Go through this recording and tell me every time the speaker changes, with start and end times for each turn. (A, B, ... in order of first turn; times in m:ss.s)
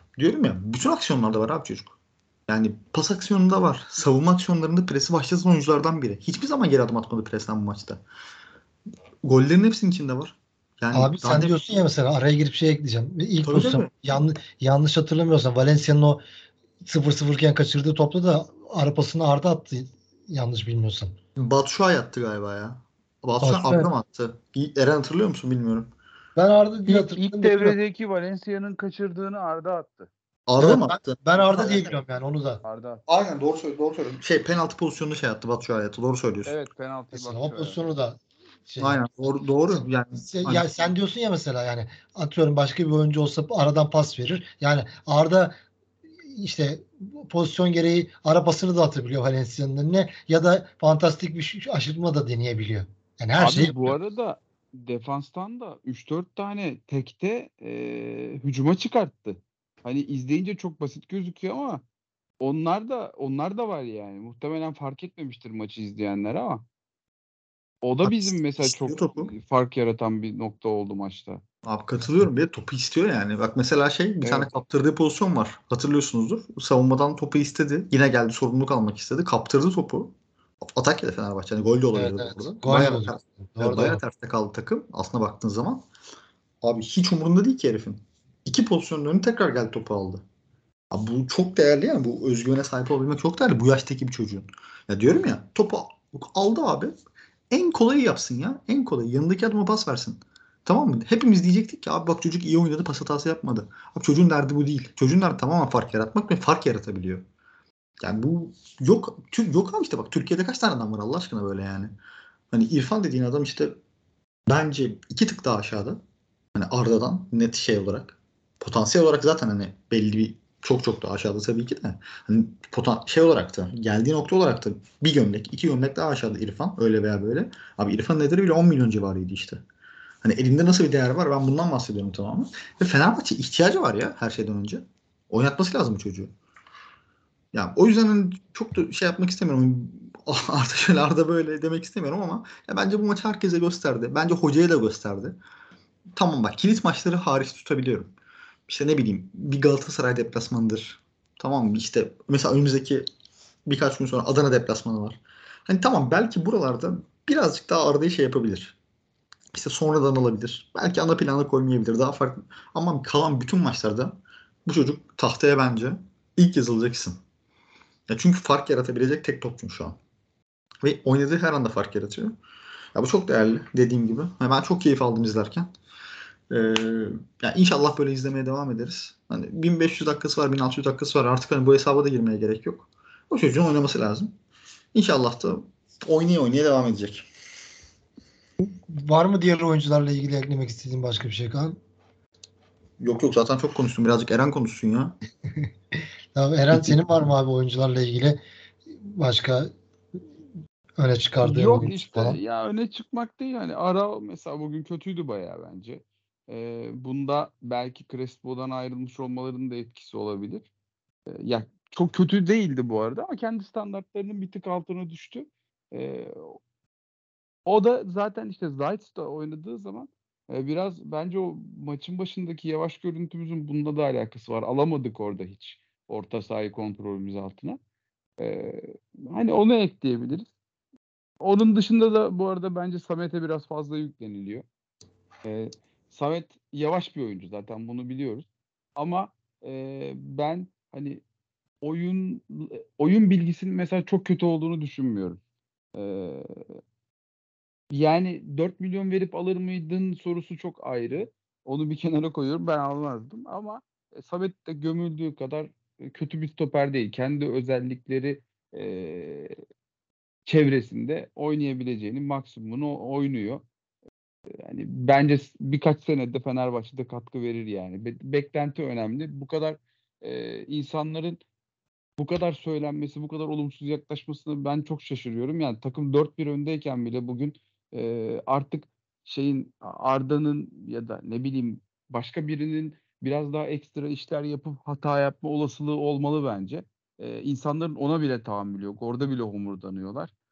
0:00.2-0:02.0 A
0:02.5-0:08.0 A
0:09.2-0:11.6 A
0:10.9-0:16.2 B
0:13.4-0:13.9 A
0:16.8-0:21.1 B
0:21.4-0:25.9 A
0:23.4-0:23.9 B
0:26.4-0:27.8 B
0:26.8-0:30.1 C
0:30.5-0:32.0 A
0:30.6-0:32.6 B
0:32.6-0:33.0 C
0:33.1-0:36.5 A
0:36.4-0:37.9 C
0:37.1-0:45.5 B
0:38.8-0:40.7 A
0:46.3-0:53.9 B
0:53.4-1:01.8 C
1:02.4-1:06.6 C
1:07.8-1:11.4 C
1:08.0-1:09.3 A
1:11.6-1:25.8 A
1:14.2-1:14.5 C
1:21.9-1:24.0 B
1:26.6-1:30.2 A
1:30.9-1:36.9 A
1:37.5-1:47.2 A
1:48.0-1:51.9 A
1:52.5-1:53.7 A
1:54.5-1:56.0 A
1:56.5-2:09.6 A
2:10.2-2:16.3 A
2:17.5-2:25.4 A
2:26.1-2:28.1 A
2:28.7-2:33.0 A
2:33.6-2:38.8 A
2:39.5-2:44.1 A
2:44.6-2:47.2 A
2:48.1-2:50.0 A
2:50.8-2:52.3 A
2:52.9-2:55.7 A
2:56.5-3:04.3 A
3:04.9-3:07.3 A
3:08.6-3:11.8 B
3:13.0-3:15.2 A
3:16.3-3:18.4 B
3:19.0-3:19.7 B
3:21.0-3:22.4 B
3:21.4-3:30.7 C
3:31.3-3:36.6 C
3:37.6-3:47.8 C
3:48.4-3:50.5 C
3:51.4-3:54.6 C
3:55.4-4:01.2 C
4:01.8-4:05.4 C
4:05.9-4:06.8 C
4:07.9-4:19.6 C
4:20.5-4:23.6 C
4:24.6-4:31.4 C
4:32.2-4:50.3 C